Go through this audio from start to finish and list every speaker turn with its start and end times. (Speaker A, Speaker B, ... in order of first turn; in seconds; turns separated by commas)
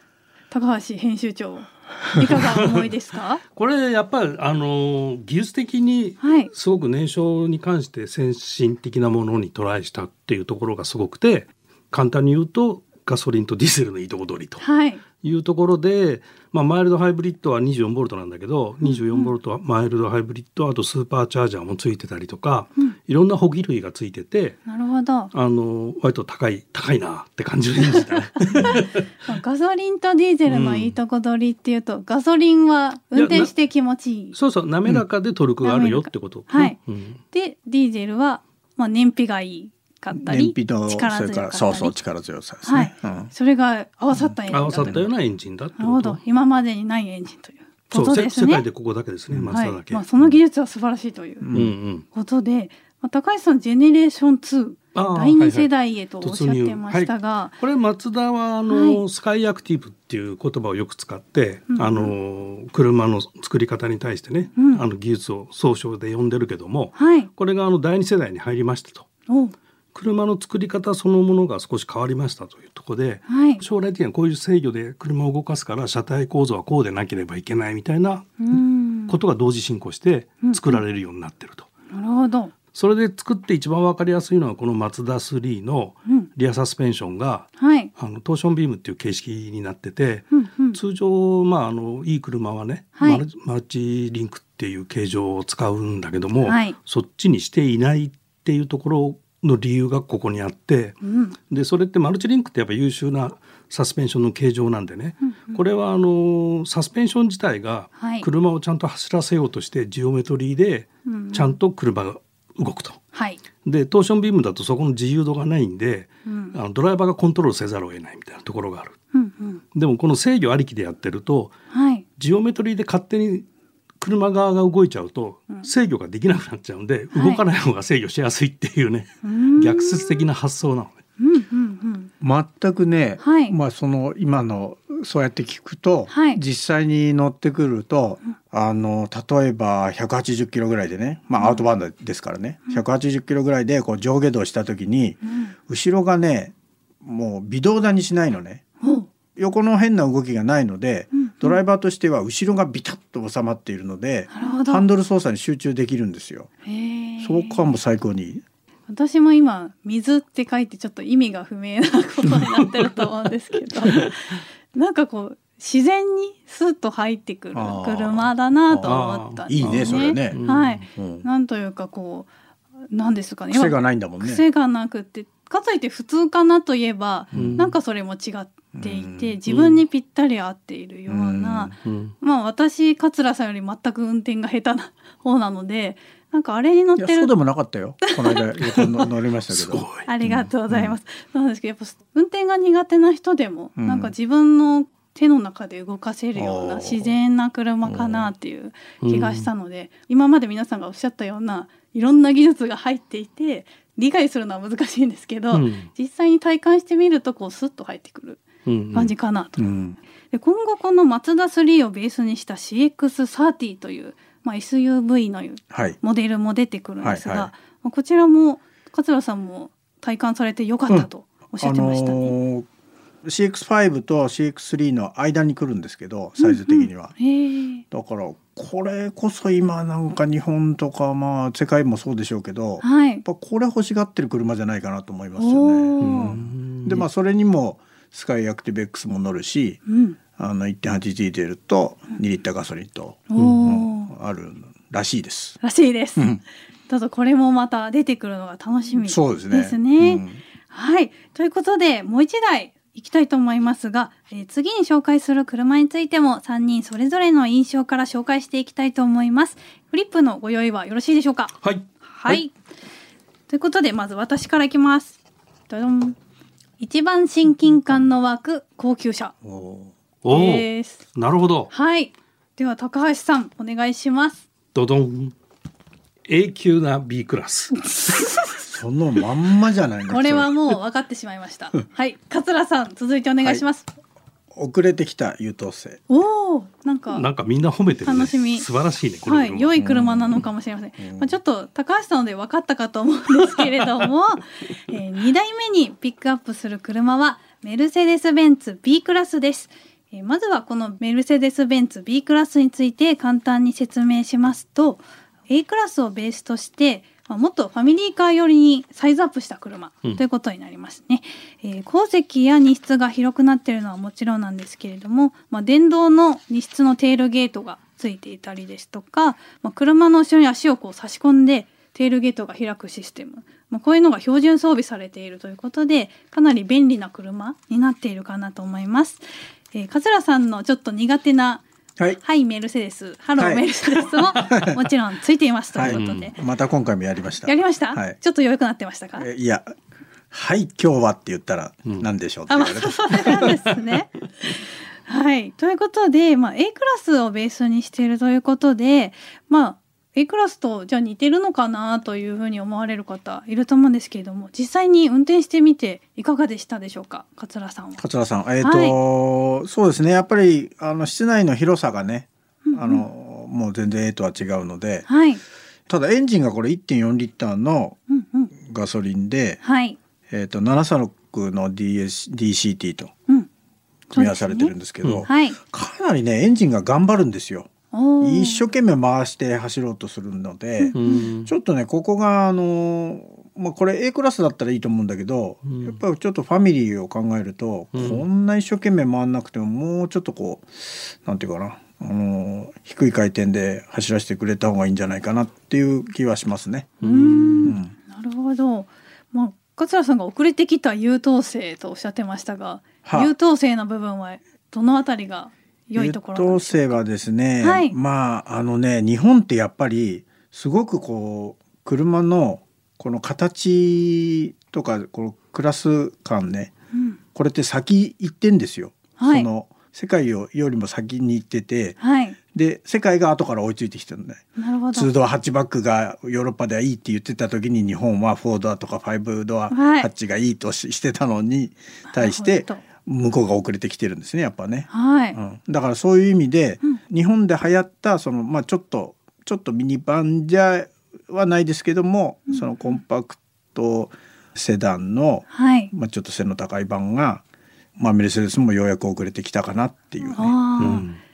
Speaker A: 0.5-3.4, Speaker B: 2.2-2.9, Speaker B: 3.5-14.6, Speaker A: 6.2-6.5, Speaker A: 14.6-15.0, Speaker B: 15.2-24.6, Speaker A: 18.8-19.3, Speaker A: 24.6-25.3, Speaker B: 25.3-29.1, Speaker A: 27.9-34.3, Speaker B: 30.5-30.9, Speaker B: 33.1-33.5, Speaker B: 34.3-37.2, Speaker A: 35.6-36.8, Speaker A: 37.3-41.9, Speaker C: 40.1-43.3, Speaker A: 42.6-45.1, Speaker C: 44.1-45.0, Speaker B: 44.5-46.2, Speaker A: 45.8-48.6, Speaker B: 47.9-50.1, Speaker C: 49.3-49.6, Speaker A: 49.5-51.5, Speaker C: 51.4-51.7, Speaker B: 51.5-52.0, Speaker A: 52.1-57.5, Speaker B: 54.9-69.1, Speaker A: 58.7-59.0, Speaker A: 61.7-62.1, Speaker A: 64.6-64.8, Speaker A: 67.0-67.3, Speaker A: 69.3-69.5, Speaker B: 69.9-78.4, Speaker A: 73.3-73.6, Speaker A: 78.4-79.1, Speaker B: 79.1-81.7, Speaker A: 80.4-80.8, Speaker A: 81.9-82.5, Speaker B: 82.7-101.0, Speaker A: 87.6-87.9, Speaker A: 90.3-90.8, Speaker A: 93.0-93.2, Speaker A: 96.4-96.8, Speaker A: 101.0-101.4, Speaker B: 101.5-113.0, Speaker A: 105.2-105.6, Speaker A: 108.0-108.3, Speaker A: 111.0-111.5, Speaker A: 113.1-113.4, Speaker B: 113.6-118.9, Speaker A: 116.2-116.5, Speaker A: 119.1-119.6, Speaker B: 119.7-121.5, Speaker A: 121.7-122.0, Speaker B: 122.2-123.5, Speaker B: 124.0-131.0, Speaker A: 127.1-127.4, Speaker A: 129.2-130.2, Speaker A: 131.2-132.1, Speaker C: 132.2-148.7, Speaker A: 133.2-133.6, Speaker A: 136.1-136.4, Speaker A: 141.4-141.6, Speaker A: 145.2-145.5, Speaker A: 148.8-149.1, Speaker C: 149.3-156.5, Speaker A: 151.1-151.6, Speaker A: 154.3-154.8, Speaker A: 156.6-157.6, Speaker C: 157.2-158.4, Speaker A: 158.9-172.3, Speaker B: 162.4-163.0, Speaker C: 167.5-170.4, Speaker B: 168.8-170.8, Speaker C: 170.9-171.2, Speaker A: 172.9-187.3, Speaker C: 173.5-174.4, Speaker C: 177.3-177.6, Speaker B: 177.3-177.7, Speaker C: 178.7-179.3, Speaker B: 179.5-179.8, Speaker C: 181.1-181.7, Speaker B: 181.8-182.1, Speaker C: 187.0-190.9, Speaker A: 188.0-188.4, Speaker B: 189.5-190.1, Speaker A: 190.1-209.7, Speaker C: 193.8-194.1, Speaker C: 196.4-196.8, Speaker C: 197.8-198.2, Speaker B: 199.0-199.5, Speaker B: 205.5-205.9, Speaker B: 208.7-209.1, Speaker C: 209.6-210.0, Speaker A: 210.3-222.3, Speaker C: 215.7-216.0, Speaker C: 217.0-217.5, Speaker C: 221.6-222.7, Speaker C: 223.2-227.1, Speaker A: 226.4-227.8, Speaker C: 227.9-239.8, Speaker A: 232.8-233.2, Speaker A: 235.4-236.4, Speaker B: 236.0-237.1, Speaker A: 239.9-240.2, Speaker C: 240.3-245.6, Speaker A: 243.3-244.1, Speaker A: 245.6-246.3, Speaker C: 246.2-246.4, Speaker A: 246.9-262.5, Speaker C: 249.0-250.4, Speaker B: 261.6-262.4, Speaker A: 263.5-266.2, Speaker A: 266.8-269.3, Speaker C: 269.4-269.9, Speaker B: 270.2-271.7, Speaker A: 270.3-271.0, Speaker A: 271.7-274.4, Speaker B: 274.7-275.3, Speaker B: 276.3-277.9, Speaker A: 277.8-278.6, Speaker C: 278.4-280.5, Speaker A: 280.1-283.9, Speaker C: 284.5-286.0, Speaker A: 286.1-287.2, Speaker B: 287.1-289.8, Speaker A: 288.0-288.6, Speaker A: 289.2-331.6, Speaker C: 289.8-290.4, Speaker C: 291.0-291.4, Speaker A: 332.2-336.4, Speaker C: 333.4-333.6, Speaker C: 334.3-334.8, Speaker C: 335.8-338.1, Speaker B: 335.8-336.3, Speaker A: 337.4-339.3, Speaker C: 339.2-339.7, Speaker C: 340.3-343.5, Speaker A: 342.5-358.0, Speaker C: 358.0-365.1, Speaker A: 358.6-359.0, Speaker A: 362.6-363.0, Speaker A: 365.1-365.4, Speaker C: 365.9-368.0, Speaker A: 368.1-368.5, Speaker C: 368.5-369.6, Speaker A: 369.6-370.0, Speaker C: 370.3-373.1, Speaker A: 374.1-374.7, Speaker C: 374.1-377.7, Speaker A: 375.2-375.6, Speaker A: 377.9-378.7, Speaker C: 378.2-396.9, Speaker A: 380.8-381.3, Speaker B: 380.9-381.5, Speaker B: 385.6-386.0, Speaker B: 387.9-388.2, Speaker B: 397.0-397.8, Speaker A: 397.0-407.0, Speaker C: 397.6-397.9, Speaker C: 403.0-403.3, Speaker C: 405.9-416.7, Speaker A: 407.6-407.9, Speaker A: 416.9-417.2, Speaker C: 417.3-422.0, Speaker A: 419.2-419.5, Speaker A: 422.0-422.4, Speaker C: 422.5-447.4, Speaker A: 424.6-425.1, Speaker A: 429.7-430.1, Speaker A: 432.1-432.8, Speaker A: 434.9-435.4, Speaker A: 442.5-443.0, Speaker A: 445.5-445.9, Speaker C: 448.0-451.1, Speaker A: 450.2-451.1, Speaker B: 450.8-451.2